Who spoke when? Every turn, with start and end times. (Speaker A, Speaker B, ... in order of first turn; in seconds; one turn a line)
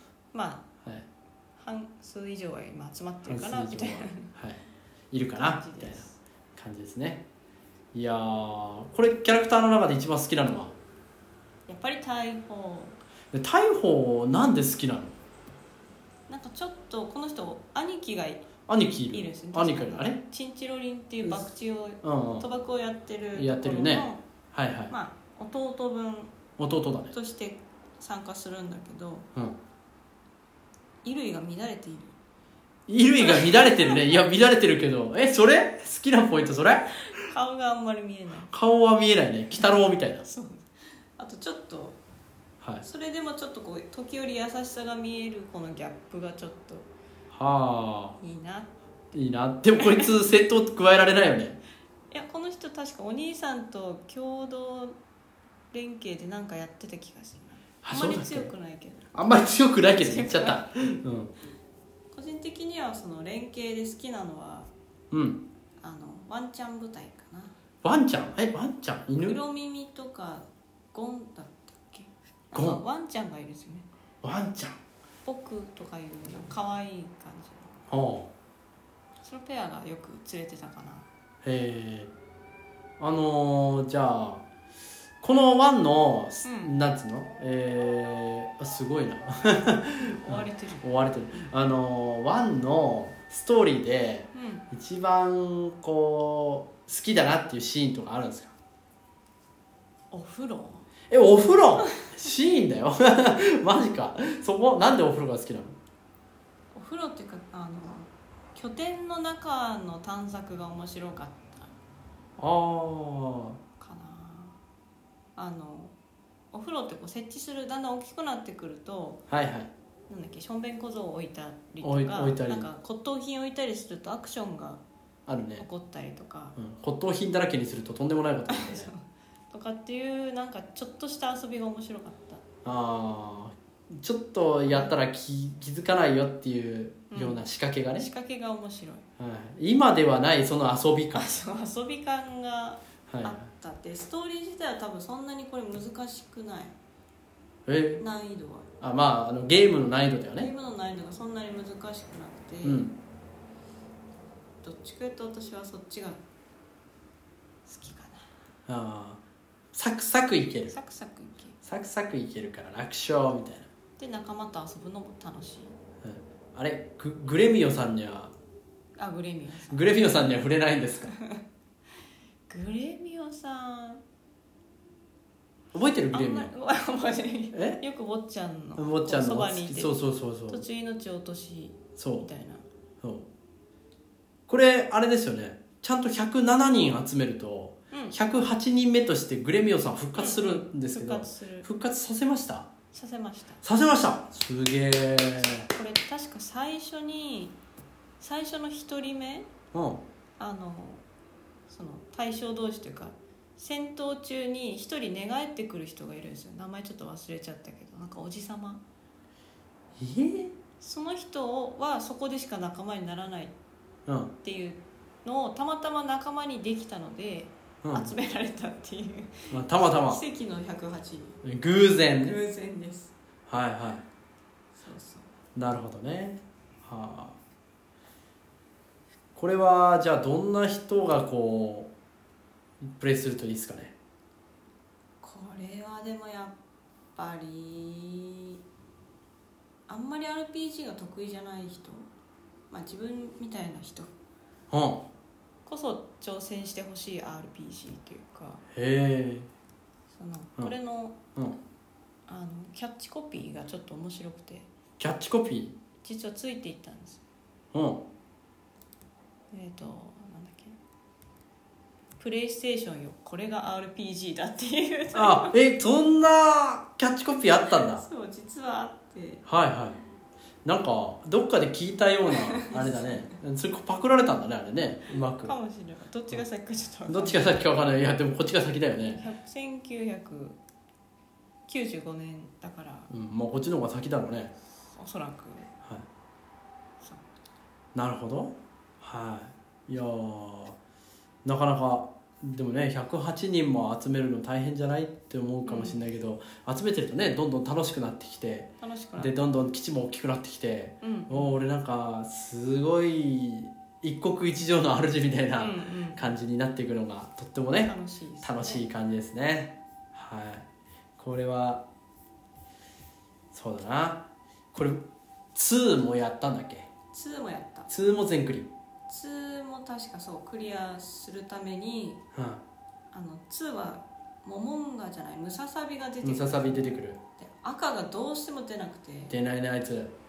Speaker A: 0.3-0.7
Speaker A: 1.6-4.3
Speaker B: 3.2-4.6
Speaker B: 5.1-6.0
Speaker A: 5.3-6.2
Speaker B: 6.5-7.2
Speaker B: 7.9-10.8
Speaker A: 11.7-13.0
Speaker B: 13.3-15.1
Speaker A: 16.3-18.5
Speaker B: 18.7-20.2
Speaker A: 19.1-24.2
Speaker B: 22.0-22.4
Speaker B: 23.3-24.9
Speaker A: 24.9-26.4
Speaker B: 26.6-27.1
Speaker A: 27.1-29.2
Speaker A: 31.0-32.1
Speaker B: 32.9-37.0
Speaker A: 33.2-34.1
Speaker A: 37.0-38.5
Speaker B: 38.5-40.2
Speaker A: 40.2-42.0
Speaker A: 42.8-46.9
Speaker B: 47.3-48.2
Speaker A: 48.2-48.7
Speaker B: 49.1-51.6
Speaker A: 49.8-50.2
Speaker A: 52.1-55.0
Speaker A: 55.7-59.1
Speaker B: 57.8-58.5
Speaker B: 59.1-61.3
Speaker A: 59.8-60.7
Speaker A: 62.1-64.7
Speaker B: 65.1-65.4
Speaker A: 65.8-67.5
Speaker B: 67.8-69.4
Speaker A: 69.2-73.9
Speaker B: 72.5-72.8
Speaker B: 74.2-74.8
Speaker A: 75.2-77.8
Speaker B: 77.9-78.3
Speaker A: 79.2-81.1
Speaker B: 81.4-82.1
Speaker B: 83.0-84.5
Speaker B: 85.2-98.5
Speaker A: 86.4-86.7
Speaker A: 90.0-90.8
Speaker A: 94.3-94.6
Speaker A: 100.1-100.9
Speaker B: 101.1-105.8
Speaker A: 106.7-111.7
Speaker B: 112.4-113.6
Speaker A: 113.8-114.6
Speaker A: 115.3-115.9
Speaker A: 116.5-119.2
Speaker B: 119.3-119.7
Speaker A: 120.1-124.8
Speaker B: 121.8-122.7
Speaker B: 125.3-125.7
Speaker A: 125.6-126.5
Speaker B: 126.5-128.9
Speaker A: 128.5-132.4
Speaker B: 132.6-138.1
Speaker A: 134.7-134.9
Speaker A: 137.1-139.0
Speaker B: 139.2-141.3
Speaker A: 141.1-146.7
Speaker B: 143.1-143.4
Speaker B: 147.7-148.0
Speaker A: 148.0-148.7
Speaker B: 148.8-150.5
Speaker A: 150.4-152.8
Speaker B: 152.6-152.9
Speaker A: 154.6-156.2
Speaker A: 157.7-158.3
Speaker B: 158.7-159.2
Speaker B: 159.7-160.8
Speaker A: 160.7-161.6
Speaker B: 161.6-163.7
Speaker A: 164.0-165.8
Speaker B: 166.0-168.3
Speaker A: 169.0-170.3
Speaker B: 169.7-171.1
Speaker A: 171.1-171.4
Speaker A: 172.5-174.0
Speaker B: 175.7-176.5
Speaker A: 176.1-182.6
Speaker B: 177.5-177.8
Speaker B: 178.8-180.6
Speaker B: 182.0-182.3
Speaker B: 184.5-192.7
Speaker A: 187.9-188.2
Speaker A: 190.2-191.7
Speaker A: 192.9-193.6
Speaker B: 193.6-195.7
Speaker A: 195.4-197.5
Speaker A: 198.2-199.5
Speaker B: 199.7-200.0
Speaker A: 200.4-201.0
Speaker A: 201.7-208.8
Speaker B: 210.0-210.5
Speaker A: 210.8-213.5
Speaker B: 214.1-214.3
Speaker A: 214.4-221.4
Speaker B: 217.8-218.1
Speaker B: 219.5-220.2
Speaker B: 221.4-222.4
Speaker A: 222.1-223.1
Speaker B: 223.5-224.0
Speaker A: 224.8-225.3
Speaker B: 225.6-227.4
Speaker B: 229.3-231.9
Speaker B: 232.8-233.9
Speaker A: 235.2-236.6
Speaker A: 237.1-238.6
Speaker A: 239.9-242.1
Speaker A: 242.7-244.1
Speaker B: 244.7-245.1
Speaker A: 245.7-248.6
Speaker B: 248.7-249.5
Speaker A: 250.1-251.2
Speaker A: 252.3-254.7
Speaker B: 255.0-255.8
Speaker A: 256.0-257.2
Speaker B: 257.7-258.0
Speaker A: 259.5-260.8
Speaker A: 262.2-265.6
Speaker B: 265.1-268.0
Speaker A: 267.7-269.4
Speaker B: 269.4-270.0
Speaker B: 270.6-275.5
Speaker A: 272.3-273.3
Speaker A: 275.4-277.6
Speaker B: 277.1-279.2
Speaker A: 279.1-280.6
Speaker A: 281.7-283.1
Speaker B: 283.1-284.5
Speaker A: 284.9-285.7
Speaker A: 287.0-287.2
Speaker B: 287.9-290.8
Speaker B: 291.4-310.6
Speaker A: 295.6-296.0
Speaker A: 298.8-299.3
Speaker A: 301.0-301.6
Speaker A: 305.6-306.3
Speaker A: 307.8-308.8
Speaker B: 311.2-311.9
Speaker B: 313.5-316.9
Speaker A: 317.1-317.9
Speaker B: 317.9-318.7
Speaker A: 319.1-322.2
Speaker B: 322.3-322.6
Speaker A: 323.1-329.3
Speaker B: 326.2-327.2
Speaker B: 329.3-330.1